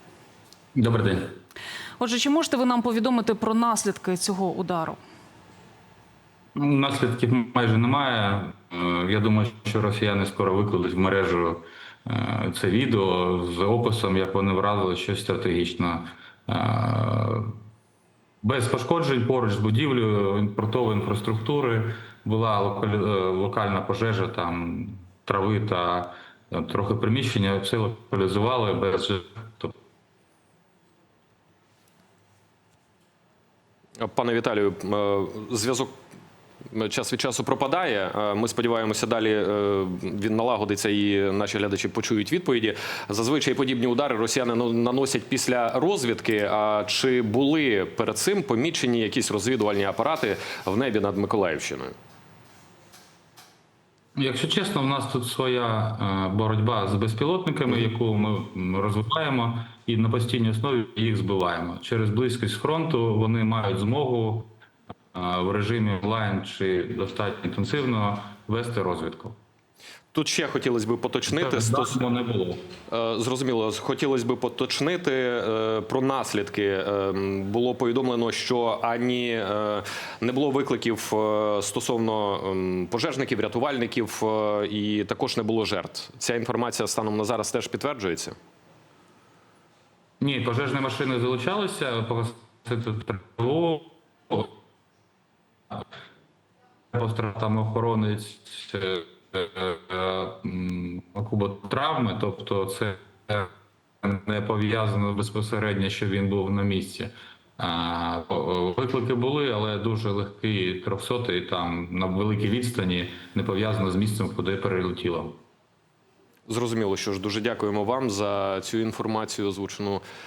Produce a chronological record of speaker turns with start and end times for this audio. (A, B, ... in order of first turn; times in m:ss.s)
0:00.7-0:01.4 A
0:02.0-0:05.0 B
0:06.6-0:17.6 A
0:18.4-0:29.7 A
0:34.0-0:35.9 C
0:36.7-0:51.9 C
0:54.2-1:04.5 A
1:05.1-1:09.4 A
1:10.1-1:12.0 C
1:11.3-1:12.6 A
1:12.9-1:28.4 C
1:30.2-1:34.5 A
1:36.9-1:43.5 A
1:44.0-1:55.4 A
1:56.5-2:00.0 C